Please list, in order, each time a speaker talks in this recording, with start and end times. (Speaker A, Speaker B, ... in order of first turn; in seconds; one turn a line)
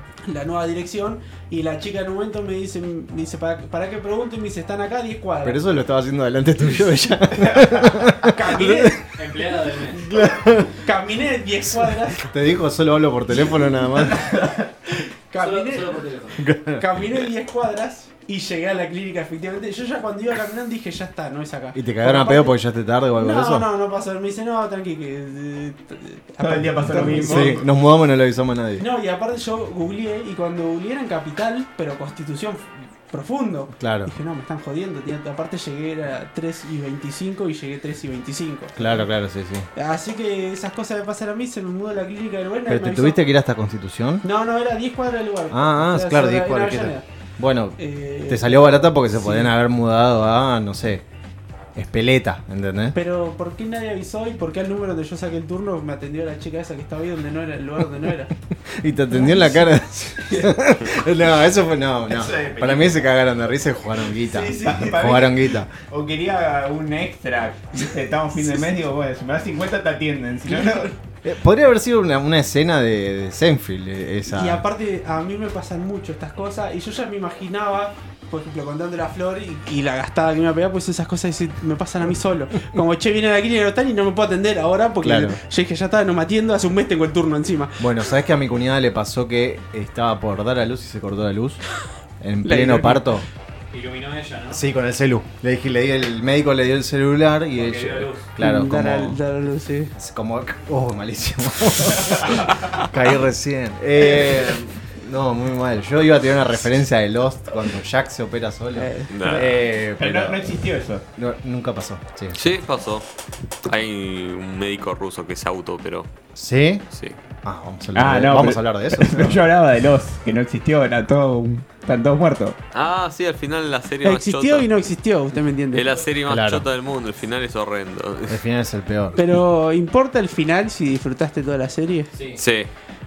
Speaker A: 0.2-5.8
Speaker B: 5.4-9.0
Speaker C: 7.4-7.7
Speaker A: 8.2-9.0
Speaker D: 9.1-10.1
Speaker B: 9.9-10.8
Speaker A: 10.7-12.3
Speaker B: 11.9-14.3
Speaker C: 14.2-14.6
Speaker A: 14.9-16.0
Speaker D: 15.4-16.5
Speaker B: 16.4-16.8
Speaker A: 16.7-22.6
Speaker B: 21.7-23.7
Speaker A: 23.1-27.6
Speaker C: 26.4-27.7
Speaker B: 27.0-28.9
Speaker A: 28.8-39.0
Speaker B: 33.8-34.1
Speaker B: 38.8-39.7
Speaker A: 39.7-43.2
Speaker B: 42.7-44.2
Speaker A: 44.2-47.0
Speaker B: 45.5-51.0
Speaker A: 47.8-49.5
Speaker B: 51.7-53.0
Speaker A: 52.9-58.3
Speaker B: 58.6-65.7
Speaker C: 62.1-63.0
Speaker A: 64.2-64.9
Speaker C: 64.5-70.9
Speaker B: 71.2-74.6
Speaker A: 74.2-87.9
Speaker B: 85.0-85.4
Speaker B: 87.8-91.6
Speaker B: 92.2-93.2
Speaker A: 92.4-93.2
Speaker D: 93.7-94.6
Speaker B: 94.5-99.2
Speaker D: 97.5-98.3
Speaker A: 98.4-99.9
Speaker B: 100.0-112.4
Speaker A: 108.7-109.4
Speaker E: 109.1-109.5
Speaker C: 110.0-111.0
Speaker E: 112.3-113.0
Speaker E: 113.7-116.1
Speaker B: 116.3-116.8
Speaker B: 117.4-119.4
Speaker C: 117.9-122.6
Speaker E: 122.7-124.7
Speaker A: 124.0-126.0
Speaker E: 125.7-128.4
Speaker B: 126.3-126.6
Speaker B: 128.3-129.3
Speaker A: 129.2-132.1
Speaker D: 132.1-132.4
Speaker E: 132.4-132.7